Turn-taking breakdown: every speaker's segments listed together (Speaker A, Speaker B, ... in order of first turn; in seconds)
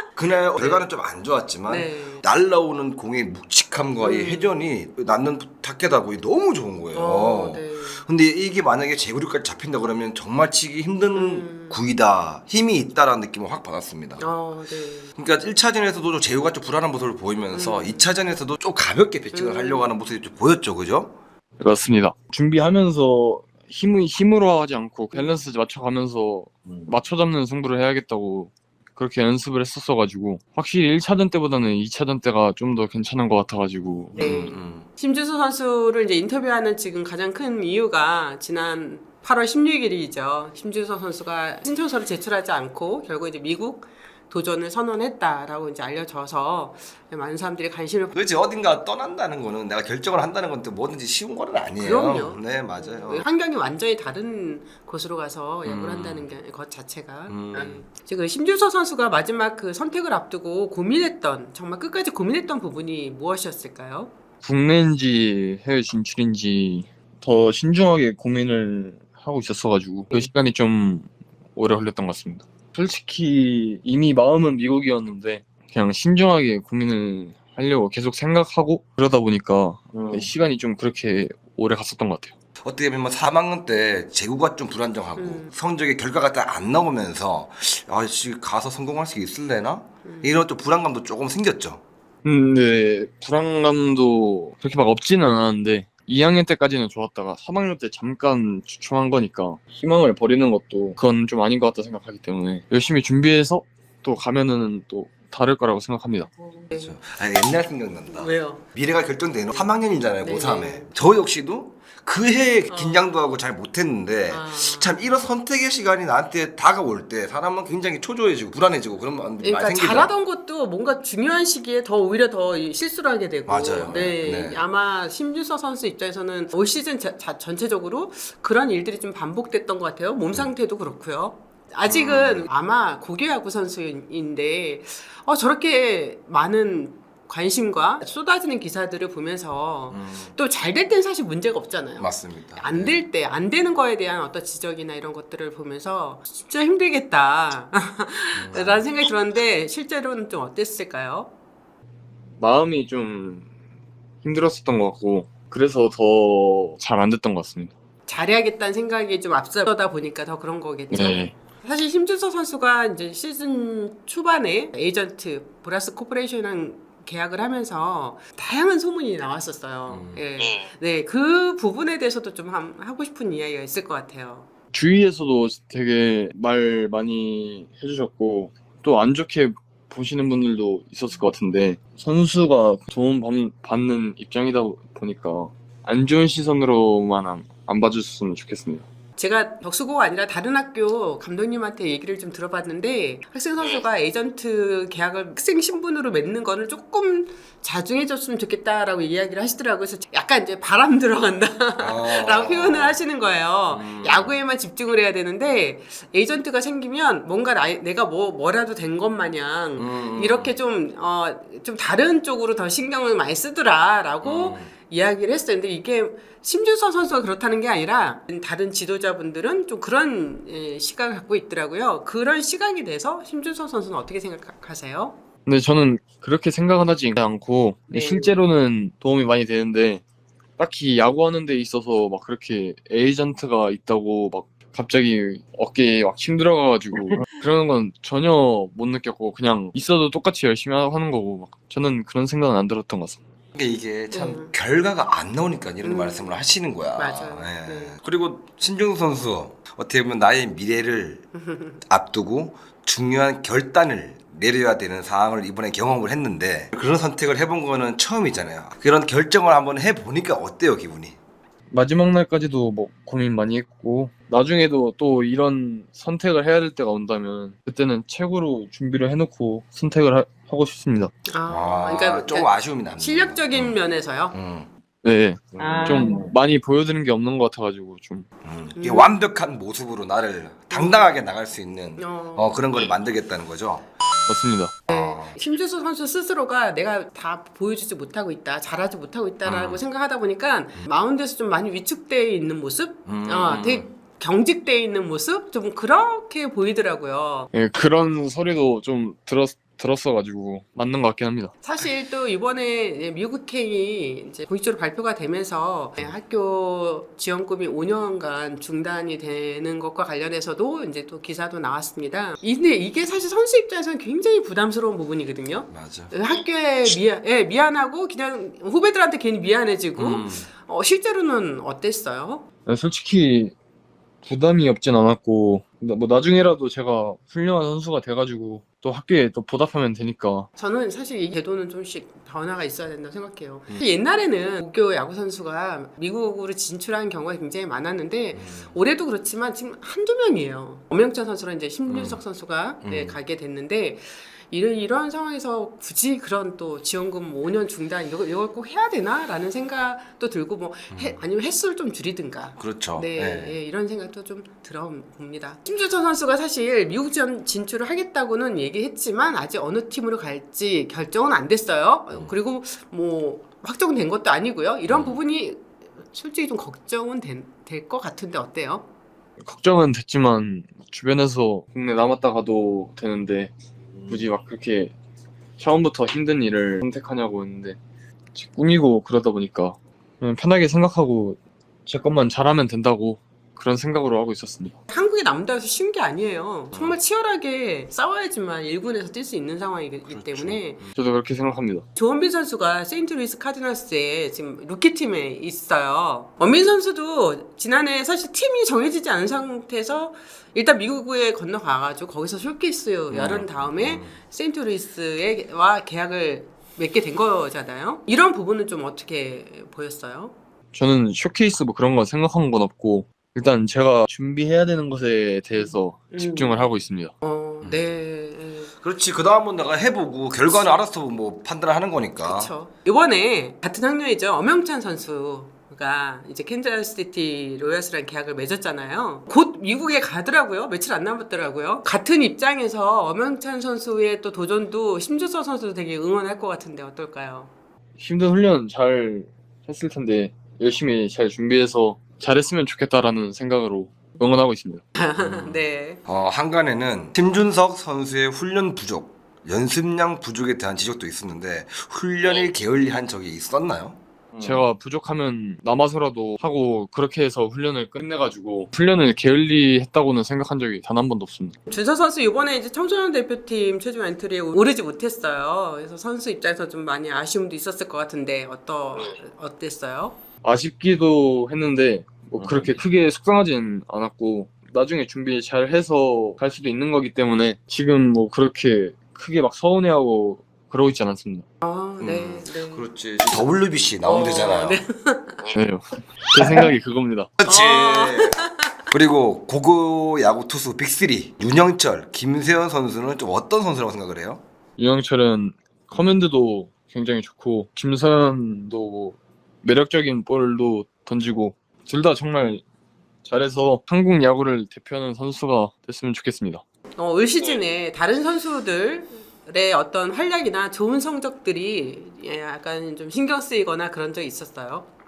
Speaker A: 0.2-14.2, 15.2-21.2, 34.2-34.9, 48.1-53.2, 55.6-56.3, 57.3-57.8, 82.6-91.8, 106.7-120.1, 123.5-124.6, 131.9-132.5, 139.9-140.3, 142.0-143.0, 148.3-148.9, 169.9-170.2, 201.8-203.0, 203.7-204.4, 209.8-210.5, 214.2-214.7, 243.5-251.2, 251.9-261.2, 271.5-273.8, 274.3-274.7, 275.6-276.0, 278.4-283.9, 284.9-285.4, 289.4-289.8, 293.1-293.9, 315.7-316.1, 320.0-320.5, 338.3-338.7, 341.9-342.2, 342.8-343.2, 350.9-351.2, 352.6-353.6, 364.9-365.2, 373.9-374.2, 390.1-390.9, 403.1-404.2, 417.6-417.9, 418.8-422.5, 445.2-454.0, 472.4-472.8, 482.0-484.8, 487.4-494.4
Speaker B: 0.6-0.8, 1.7-2.2, 4.0-4.6, 6.9-8.0, 11.1-11.8, 14.2-15.1, 17.5-18.1, 19.3-19.9, 34.1-48.2, 51.8-64.1, 85.2-85.5, 90.0-90.4, 106.4-107.0, 108.1-108.7, 110.2-110.9, 112.7-113.1, 114.3-115.0, 119.4-151.3, 158.1-174.5, 189.2-225.2, 227.9-228.3, 244.1-244.5, 245.8-246.4, 247.0-247.9, 251.3-251.8, 271.3-274.4, 275.6-276.3, 278.8-279.2, 280.7-281.1, 282.0-282.6, 284.9-297.5, 301.6-322.4, 330.6-368.9, 384.9-390.8, 392.0-410.3, 416.1-416.7, 417.2-418.7, 420.5-420.9, 422.2-437.5, 444.9-446.0, 461.7-470.2, 481.6-482.9, 484.0-485.5, 487.4-488.7, 507.0-514.9
Speaker C: 21.6-34.3, 64.4-82.3, 92.2-106.3, 152.4-153.5, 154.2-157.7, 160.9-161.3, 174.7-188.8, 225.5-230.0, 230.6-243.2, 261.7-271.1, 275.0-278.2, 284.3-284.8, 297.5-301.5, 322.6-323.5, 324.2-330.5, 369.4-373.5, 374.1-374.9, 375.6-377.8, 378.4-384.8, 390.9-391.8, 410.7-417.1, 438.0-444.8, 454.4-461.6, 470.4-481.4, 485.5-487.3, 494.8-502.6, 503.2-506.6